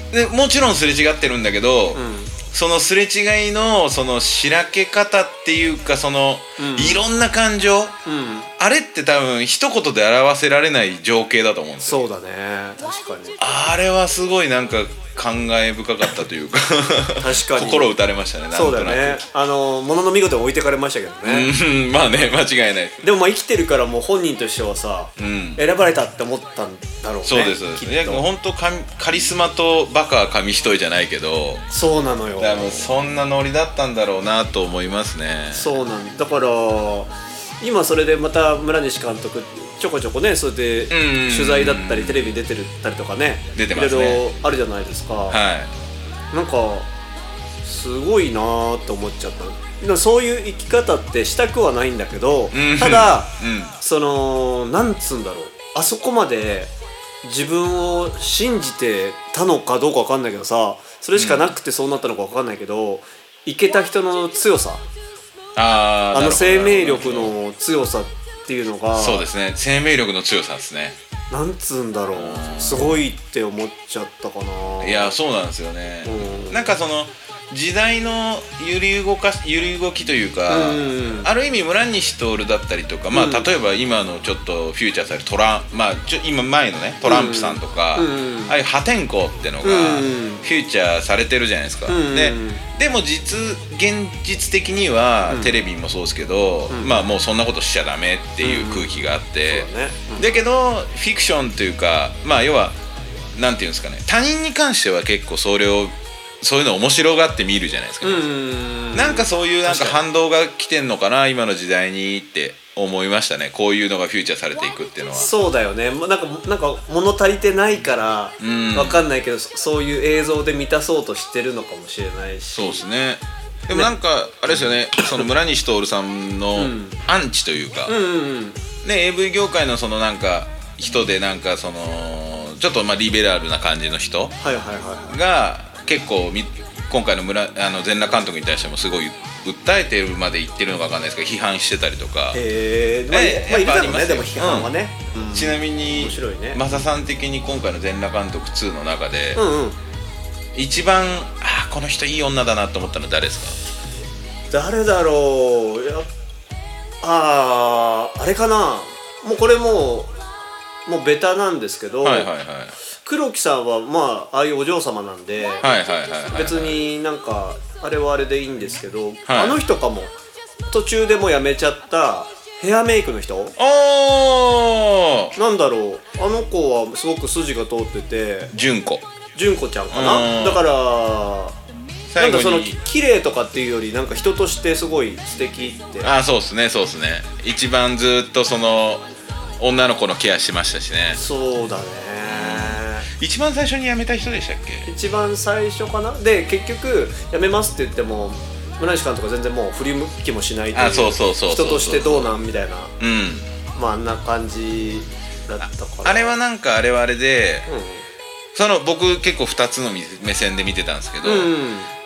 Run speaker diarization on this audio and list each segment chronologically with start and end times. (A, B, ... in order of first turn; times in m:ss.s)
0:00.1-0:07.9 A
0:01.9-0:02.3 B
0:06.6-0:07.0 B
0:08.0-0:08.5 B
0:08.6-0:12.1 A
0:11.8-0:13.4 B
0:13.4-0:19.2 A
0:17.2-0:17.9 B
0:18.5-0:21.5 B
0:21.2-0:23.0 A
0:23.0-0:28.2 B
0:25.2-0:25.6 A
0:27.2-0:31.6 A
0:31.7-0:32.8 B
0:32.4-0:35.7 A
0:35.5-0:45.4 B
0:40.9-0:42.4 A
0:43.6-0:44.2 A
0:45.3-0:45.7 A
0:46.3-0:46.9 B
0:47.6-0:56.7 B
0:52.5-0:53.8 A
0:57.2-1:04.8 B
1:01.1-1:01.5 A
1:05.6-1:07.3 A
1:06.1-1:09.2 B
1:08.9-1:11.0 A
1:11.3-1:15.1 B
1:12.1-1:13.0 A
1:14.8-1:42.8 A
1:16.0-1:16.8 B
1:20.5-1:21.3 B
1:23.1-1:23.5 B
1:27.0-1:28.6 B
1:29.6-1:30.4 B
1:31.9-1:32.6 B
1:35.3-1:35.6 B
1:36.7-1:37.1 B
1:38.4-1:40.3 B
1:43.3-1:48.2 A
1:48.0-1:50.0 B
1:48.9-1:55.3 A
1:55.1-2:02.8 B
1:58.4-1:59.0 A
2:02.5-2:07.9 A
2:04.5-2:04.7 B
2:06.6-2:07.0 B
2:07.9-2:08.6 B
2:08.8-2:14.4 A
2:14.4-2:15.1 B
2:15.1-2:22.4 A
2:22.3-2:26.6 B
2:23.1-2:24.7 A
2:25.3-2:29.4 A
2:29.3-2:29.8 B
2:30.5-2:33.6 A
2:34.5-2:36.1 B
2:37.0-2:40.1 B
2:40.8-2:42.3 B
2:42.0-2:42.8 A
2:43.0-2:50.1 B
2:45.6-2:46.8 A
2:49.3-2:49.6 A
2:50.7-2:53.5 B
2:53.6-2:55.3 A
2:55.3-2:58.5 B
2:58.5-2:59.0 A
2:59.3-3:01.6 B
2:59.9-3:00.6 A
3:02.1-3:02.8 A
3:02.2-3:06.1 B
3:06.0-3:09.0 A
3:09.6-3:11.2 A
3:11.1-3:13.1 B
3:12.2-3:14.9 A
3:14.8-3:22.9 B
3:20.7-3:22.3 A
3:23.0-3:23.5 A
3:23.7-3:26.4 B
3:25.6-3:27.7 A
3:27.7-3:28.0 B
3:28.5-3:31.5 A
3:31.2-3:31.9 B